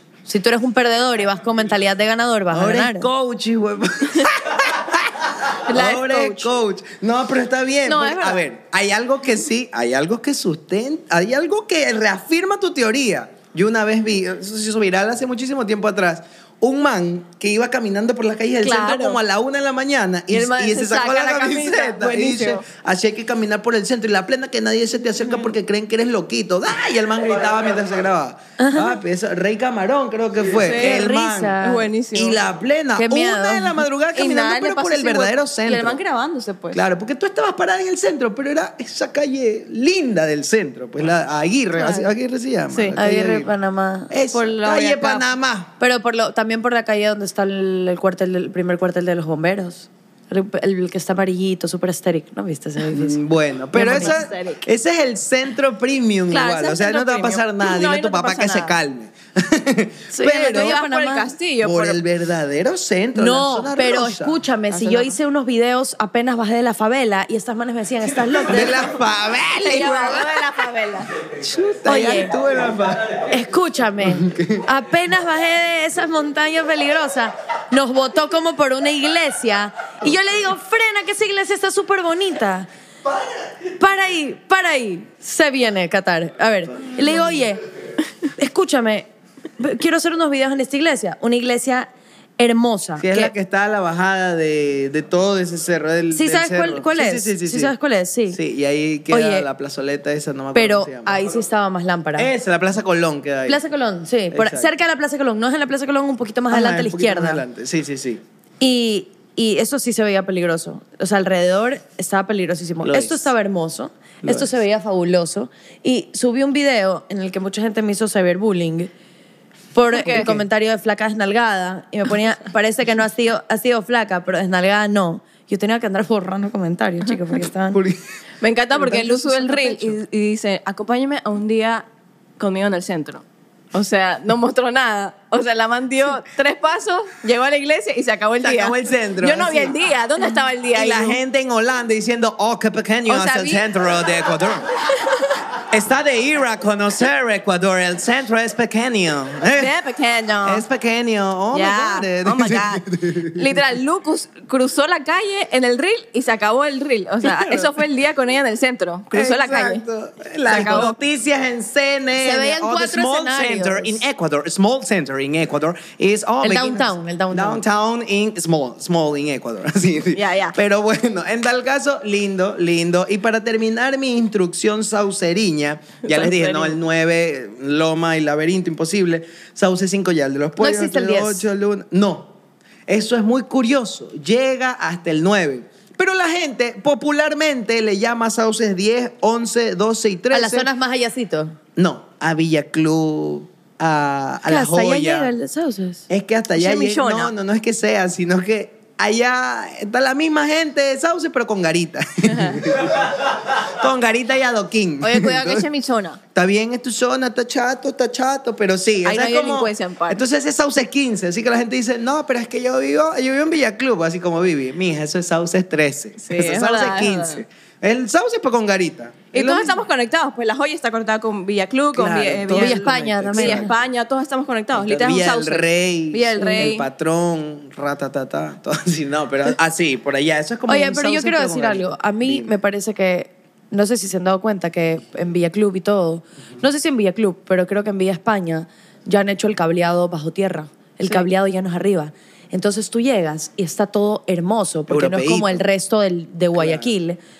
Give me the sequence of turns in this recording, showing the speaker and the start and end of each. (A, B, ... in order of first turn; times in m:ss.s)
0:00.2-0:03.1 A
0:02.5-0:31.6 B
0:05.6-0:06.5 C
0:07.8-0:08.4 C
0:18.6-0:19.2 C
0:20.3-0:22.6 C
0:28.6-0:28.9 A
0:30.6-0:31.1 C
0:30.8-0:31.9 A
0:31.6-0:32.4 C
0:32.1-0:36.0 B
0:33.0-0:33.8 A
0:34.1-0:36.8 C
0:36.7-0:43.5 B
0:41.8-0:42.1 C
0:42.7-0:42.9 C
0:43.0-0:45.2 A
0:44.1-0:45.7 B
0:45.8-0:53.2 A
0:52.9-1:00.8 B
0:53.7-0:54.1 A
0:53.8-0:54.6 C
0:56.3-0:58.7 C
1:00.1-1:01.3 A
1:00.4-1:02.0 C
1:01.6-1:04.4 B
1:03.1-1:08.9 A
1:04.7-1:05.2 C
1:08.4-1:10.4 B
1:09.6-1:11.1 C
1:11.4-1:13.2 B
1:11.9-1:12.3 A
1:13.3-1:22.7 A
1:14.0-1:14.6 B
1:23.8-1:27.6 A
1:28.4-1:29.1 A
1:29.6-1:33.3 A
1:33.0-1:37.7 B
1:36.1-1:38.4 A
1:38.3-1:41.2 B
1:39.1-1:39.5 A
1:40.5-1:42.3 A
1:42.2-1:43.6 B
1:43.4-1:47.4 A
1:44.3-1:44.7 B
1:46.5-1:48.2 B
1:48.6-1:58.9 A
1:52.8-1:53.3 B
1:54.2-1:54.5 B
1:59.7-2:07.8 A
1:59.9-2:00.3 C
2:00.1-2:00.4 B
2:07.7-2:08.0 B
2:08.4-2:11.8 C
2:08.8-2:09.9 A
2:12.4-2:21.2 C
2:18.4-2:19.7 B
2:20.7-2:24.7 B
2:23.1-2:23.6 C
2:25.0-2:25.4 C
2:25.7-2:29.7 B
2:29.5-2:30.6 C
2:30.4-2:33.5 B
2:31.5-2:39.8 C
2:37.2-2:37.7 B
2:39.1-3:02.3 B
2:40.5-2:40.9 C
2:42.2-2:44.0 A
2:46.4-2:47.6 A
2:50.1-2:50.6 C
2:56.0-2:56.8 C
3:00.6-3:01.4 A
3:02.9-3:10.7 B
3:10.3-3:11.6 A
3:11.8-3:15.3 B
3:14.4-3:16.0 A
3:16.1-3:25.6 B
3:16.5-3:17.3 C
3:22.3-3:22.6 C
3:25.0-3:26.2 C
3:26.3-3:39.8 B
3:29.0-3:30.2 C
3:36.2-3:37.4 C
3:39.3-3:46.8 C
3:41.9-3:43.7 B
3:42.5-3:43.7 A
3:44.7-3:52.5 B
3:46.4-3:46.7 A
3:50.7-4:07.2 A
4:04.9-4:05.6 B
4:06.5-4:06.9 B